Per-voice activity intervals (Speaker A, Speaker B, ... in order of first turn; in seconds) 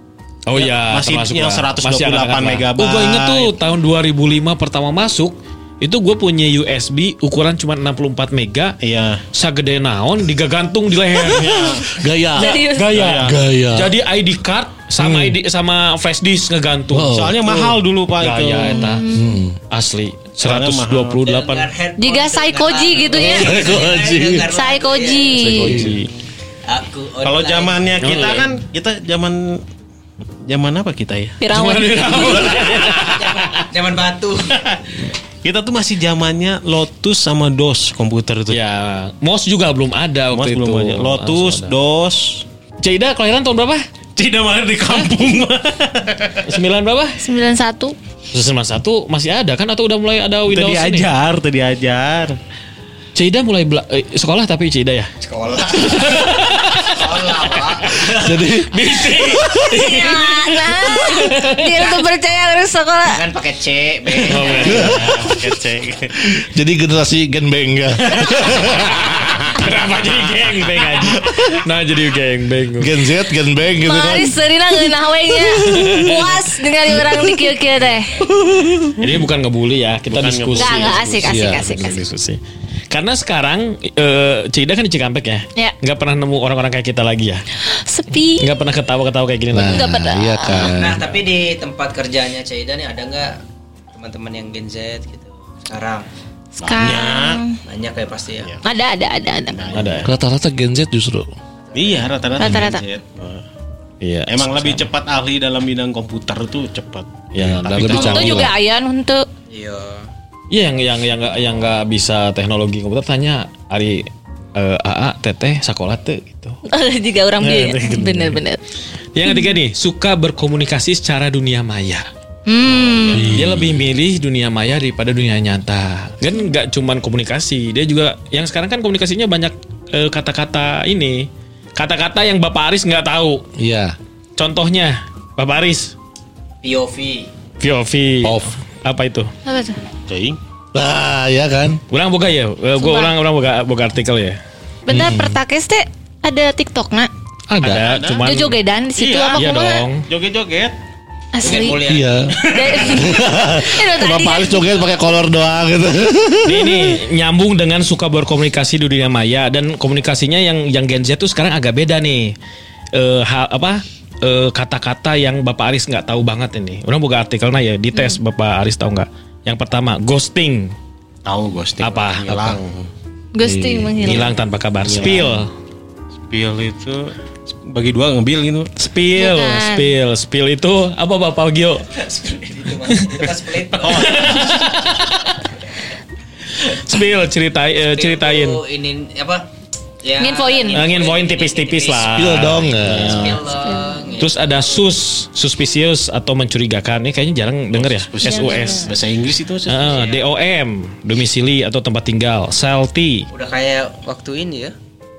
Speaker A: 0.5-8.8, 9.3-19.1, 19.7-21.7, 25.3-26.1, 28.0-28.5, 31.5-33.7, 38.5-41.7, 42.8-43.8, 46.5-47.2, 48.3-51.1, 53.1-55.1, 55.8-58.1, 58.7-61.9, 64.2-65.3, 69.4-73.0, 75.6-76.3, 79.0-82.4, 82.9-87.5, 88.4-89.9, 99.7-100.1, 104.0-104.8, 107.3-108.3, 110.5-116.6, 117.4-118.4, 119.1-122.1, 123.3-133.4, 134.4-135.9, 137.6-139.3, 141.9-144.4, 147.6-148.6, 149.3-150.1, 156.4-162.3, 162.9-170.7, 171.8-172.6, 174.0-175.5, 178.8-181.8, 182.9-185.4, 186.6-188.6, 190.7-193.4, 194.2-198.9, 199.7-203.3
Speaker B: 0.5-3.5, 8.8-9.2, 11.3-11.9, 12.9-13.3, 17.1-19.0, 20.4-21.3, 27.2-29.6, 30.5-31.4, 34.6-34.9, 35.4-38.6, 40.3-42.4, 44.1-46.5, 50.5-52.4, 64.4-66.3, 78.3-78.9, 80.1-81.5, 96.6-97.4, 99.5-100.1, 101.7-103.4, 104.3-108.5, 122.9-123.4, 140.1-140.4, 147.8-148.3, 149.0-149.4, 150.1-150.7, 152.4-152.8, 171.2-172.9, 174.8-175.4, 176.3-177.1, 177.7-178.7, 183.8-184.7, 197.7-199.9
Speaker C: 11.9-12.6, 13.2-13.9, 15.0-15.4, 16.9-17.4, 19.1-19.6, 23.1-24.5, 25.6-25.9, 58.1-58.7, 64.7-65.0, 66.3-69.2, 72.8-74.4, 75.4-75.9, 81.2-81.6, 89.5-91.0, 100.0-101.3, 107.4-108.5, 123.1-123.8, 133.6-133.9, 138.2-138.6, 140.7-141.8, 144.9-145.4, 147.5-147.8, 151.8-157.0, 173.4-174.2, 174.9-175.2, 192.1-193.4
Speaker D: 12.4-12.9, 18.7-19.4, 22.0-23.7, 24.5-25.8, 31.4-32.6, 47.2-47.9, 59.7-63.2, 73.8-78.2, 80.6-82.0, 87.6-88.5, 89.7-90.7, 96.6-97.6, 98.6-99.6, 102.4-102.8, 107.9-109.2, 116.7-118.6, 122.5-123.3, 139.4-139.8, 142.8-143.1, 144.9-147.1, 148.2-149.8, 151.3-151.8, 152.4-154.8, 173.3-174.3, 179.2-179.9, 190.2-190.8, 193.6-194.2, 198.2-198.9
Speaker E: 21.3-25.4, 26.7-28.2, 33.0-34.7, 55.2-59.4, 63.1-65.1, 90.5-93.4, 93.9-96.0, 97.6-98.6, 109.5-110.1, 136.6-137.3, 151.4-152.8, 181.9-184.4, 187.8-189.5, 190.0-194.8, 199.8-200.2, 203.3-204.7